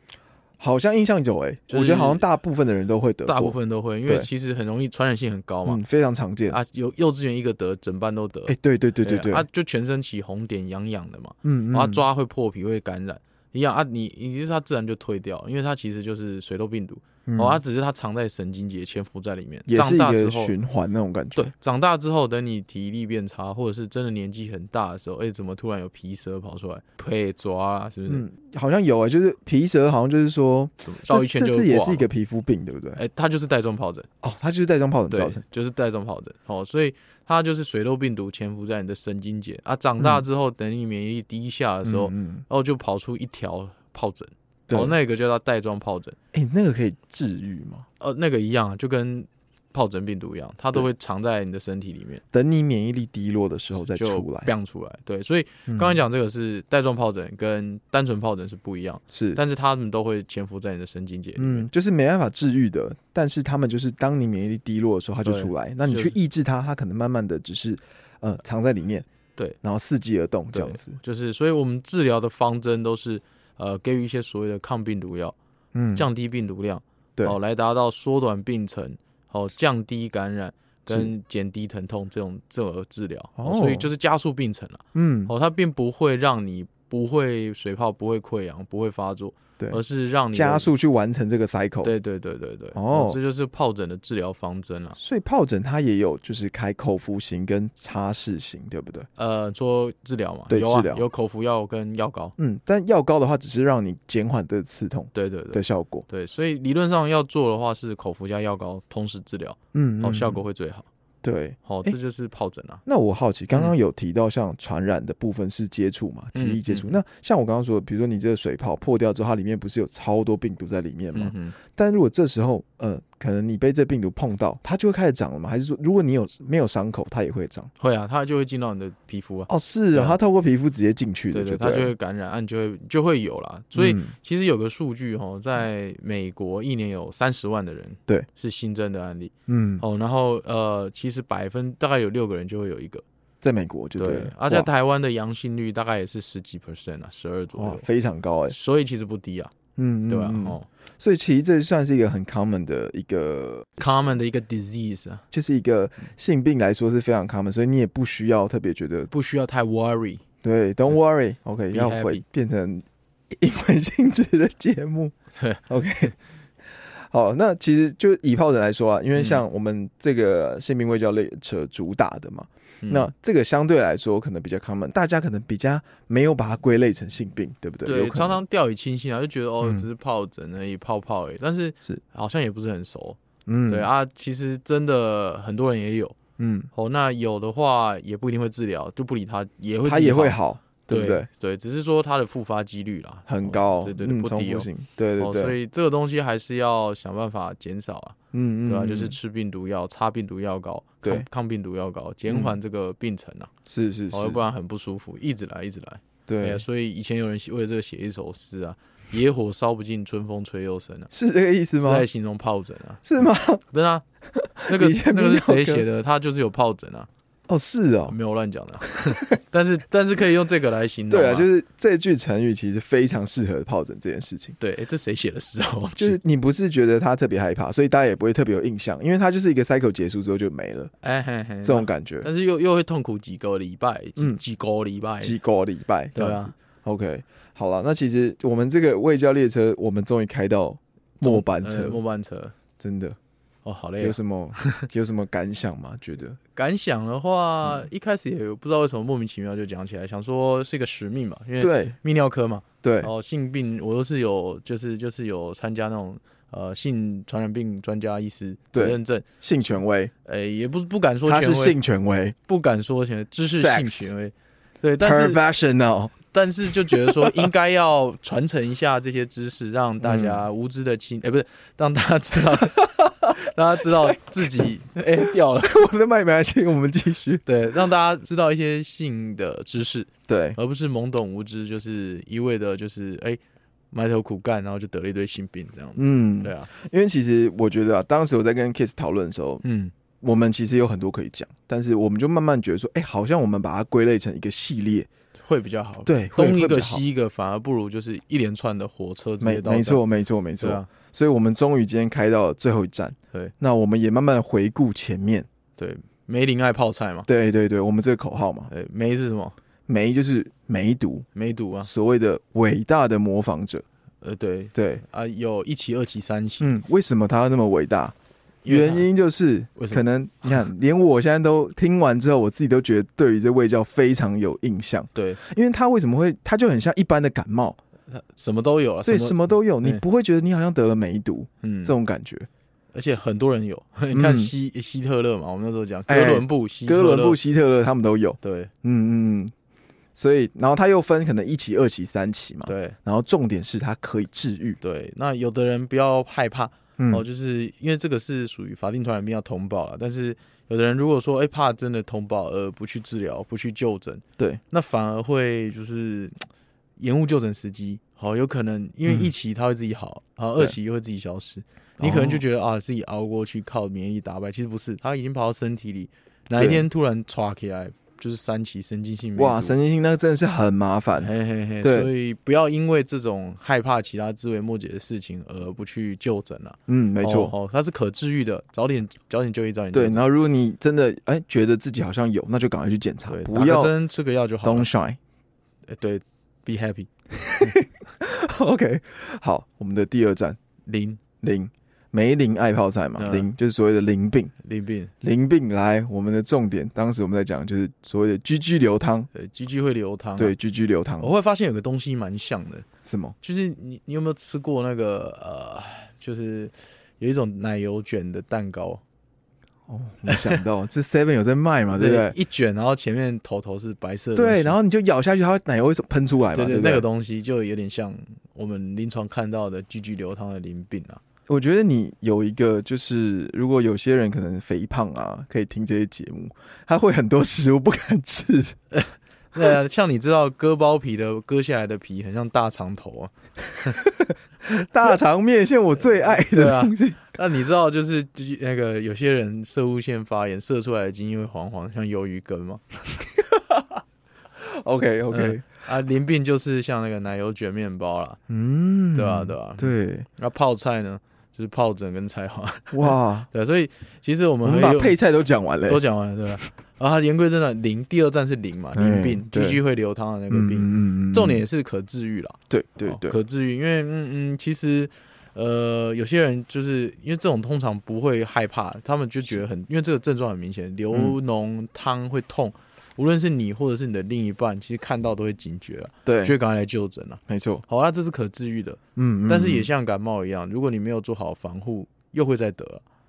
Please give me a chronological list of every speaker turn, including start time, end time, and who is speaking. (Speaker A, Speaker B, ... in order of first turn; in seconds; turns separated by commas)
Speaker A: 0.6-3.5, Speaker B: 1.7-2.2, Speaker B: 3.2-5.8, Speaker A: 5.7-6.6, Speaker B: 6.5-20.5, Speaker A: 8.5-9.4, Speaker A: 11.4-12.0, Speaker A: 17.2-17.6, Speaker A: 19.7-21.5, Speaker B: 21.3-28.2, Speaker A: 28.1-33.0, Speaker B: 30.8-32.1, Speaker B: 33.0-34.1, Speaker A: 34.2-35.4, Speaker B: 35.1-46.2, Speaker A: 41.8-42.4, Speaker A: 44.7-44.9, Speaker A: 46.3-47.9, Speaker B: 48.0-52.2, Speaker A: 52.3-54.5, Speaker B: 53.9-61.7, Speaker A: 55.7-56.0, Speaker A: 59.1-59.4, Speaker A: 61.4-69.0, Speaker B: 65.2-66.2, Speaker A: 69.6-71.0, Speaker B: 70.5-75.3, Speaker A: 75.7-76.1, Speaker B: 75.9-90.7, Speaker A: 83.4-83.9, Speaker A: 84.9-85.3, Speaker A: 90.3-91.9, Speaker B: 91.8-95.0, Speaker A: 92.7-93.2, Speaker A: 95.0-99.1, Speaker B: 99.2-102.3, Speaker A: 100.5-101.0, Speaker A: 102.4-106.0, Speaker B: 105.1-110.8, Speaker A: 109.7-110.4, Speaker A: 111.2-112.0, Speaker B: 111.7-112.8, Speaker A: 112.8-127.7, Speaker B: 116.3-117.0, Speaker B: 121.1-121.5, Speaker B: 127.8-130.2, Speaker A: 129.5-131.9, Speaker B: 131.3-143.0, Speaker A: 133.7-134.1, Speaker A: 139.5-139.8, Speaker A: 143.4-144.7, Speaker B: 144.0-147.8, Speaker A: 147.5-148.6, Speaker B: 148.5-149.5, Speaker A: 149.8-154.0, Speaker B: 150.1-150.7, Speaker B: 153.8-155.2, Speaker A: 155.3-159.1, Speaker B: 159.1-160.2, Speaker A: 160.4-165.1, Speaker B: 161.7-162.2, Speaker A: 165.7-166.1, Speaker A: 166.7-178.4, Speaker B: 169.2-169.4, Speaker B: 172.8-173.1, Speaker B: 177.8-183.2, Speaker A: 179.6-179.9, Speaker A: 183.4-183.9, Speaker B: 183.7-186.2, Speaker A: 186.4-186.7, Speaker B: 186.7-194.7, Speaker A: 189.8-191.3, Speaker A: 193.3-195.5, Speaker B: 195.2-198.2, Speaker A: 198.3-199.2, Speaker B: 198.7-203.5, Speaker A: 202.3-202.6, Speaker A: 203.7-204.4, Speaker B: 204.1-211.1, Speaker A: 206.3-206.6, Speaker A: 211.1-212.1, Speaker B: 211.8-213.0, Speaker A: 213.0-213.6, Speaker B: 213.7-214.0, Speaker A: 214.3-215.8, Speaker B: 214.7-217.1, Speaker A: 217.5-218.2, Speaker B: 218.1-221.5, Speaker A: 221.1-224.6, Speaker B: 224.6-226.2, Speaker A: 226.0-230.9, Speaker B: 231.0-235.3, Speaker A: 231.6-232.3, Speaker A: 235.2-242.0, Speaker B: 236.1-236.5, Speaker B: 241.2-242.5, Speaker A: 242.8-243.2, Speaker B: 243.6-244.8, Speaker A: 244.0-246.4, Speaker B: 246.5-259.2, Speaker A: 251.6-251.9, Speaker A: 252.8-253.1, Speaker A: 258.7-260.1, Speaker B: 260.2-261.8, Speaker A: 261.3-262.4, Speaker B: 262.5-265.4, Speaker A: 263.5-264.1, Speaker A: 265.0-267.5, Speaker B: 266.3-275.9, Speaker A: 270.0-270.4, Speaker A: 272.8-274.7, Speaker A: 275.6-277.4, Speaker B: 277.4-283.4, Speaker A: 280.3-280.6, Speaker B: 283.9-286.7, Speaker A: 286.0-289.6, Speaker B: 289.6-289.9, Speaker A: 290.2-295.1, Speaker B: 295.4-300.0, Speaker A: 296.1-297.0, Speaker A: 299.4-305.5, Speaker B: 300.6-300.9, Speaker B: 305.8-307.3, Speaker A: 307.3-308.7, Speaker B: 308.7-309.6, Speaker A: 309.9-311.3, Speaker B: 311.3-311.9, Speaker A: 311.8-313.8, Speaker B: 314.2-316.7, Speaker A: 314.7-315.0, Speaker A: 316.6-318.1, Speaker B: 318.6-319.1, Speaker A: 318.6-327.8, Speaker B: 319.8-320.0, Speaker B: 328.1-330.0, Speaker A: 329.0-332.5, Speaker B: 331.6-331.9, Speaker B: 332.9-337.4, Speaker A: 334.1-334.5, Speaker A: 336.1-339.5, Speaker B: 338.4-338.7, Speaker A: 340.1-344.8, Speaker B: 342.6-342.9, Speaker B: 344.8-356.4, Speaker A: 347.0-347.2, Speaker B: 357.0-369.8, Speaker A: 359.1-359.3, Speaker A: 362.0-362.4, Speaker A: 366.6-366.9, Speaker A: 369.4-372.1, Speaker B: 371.2-380.2, Speaker A: 376.9-377.5, Speaker A: 379.9-383.9, Speaker B: 383.3-384.9, Speaker A: 384.6-385.2, Speaker B: 385.9-387.1, Speaker A: 387.3-390.6, Speaker B: 390.9-391.2, Speaker A: 391.4-394.5, Speaker B: 393.2-393.5, Speaker B: 394.6-395.1, Speaker A: 395.2-399.3, Speaker B: 399.3-400.5, Speaker A: 400.4-401.3, Speaker B: 401.2-402.9, Speaker A: 403.0-403.4, Speaker B: 403.4-409.0, Speaker A: 409.9-412.3, Speaker B: 410.3-410.6, Speaker B: 411.9-414.8, Speaker A: 414.4-417.1, Speaker B: 416.5-421.2, Speaker A: 421.5-428.8, Speaker B: 428.9-433.3, Speaker A: 433.9-437.2, Speaker B: 436.3-443.2, Speaker A: 443.4-444.0, Speaker A: 444.6-445.6, Speaker B: 445.3-448.4, Speaker A: 448.5-450.3, Speaker B: 449.1-455.1, Speaker A: 452.9-453.5, Speaker A: 454.6-456.6, Speaker B: 455.9-483.0, Speaker A: 458.9-459.8, Speaker A: 460.5-461.6, Speaker A: 462.7-463.4, Speaker A: 471.1-471.4, Speaker A: 476.2-476.5, Speaker A: 477.5-477.8, Speaker A: 479.1-479.9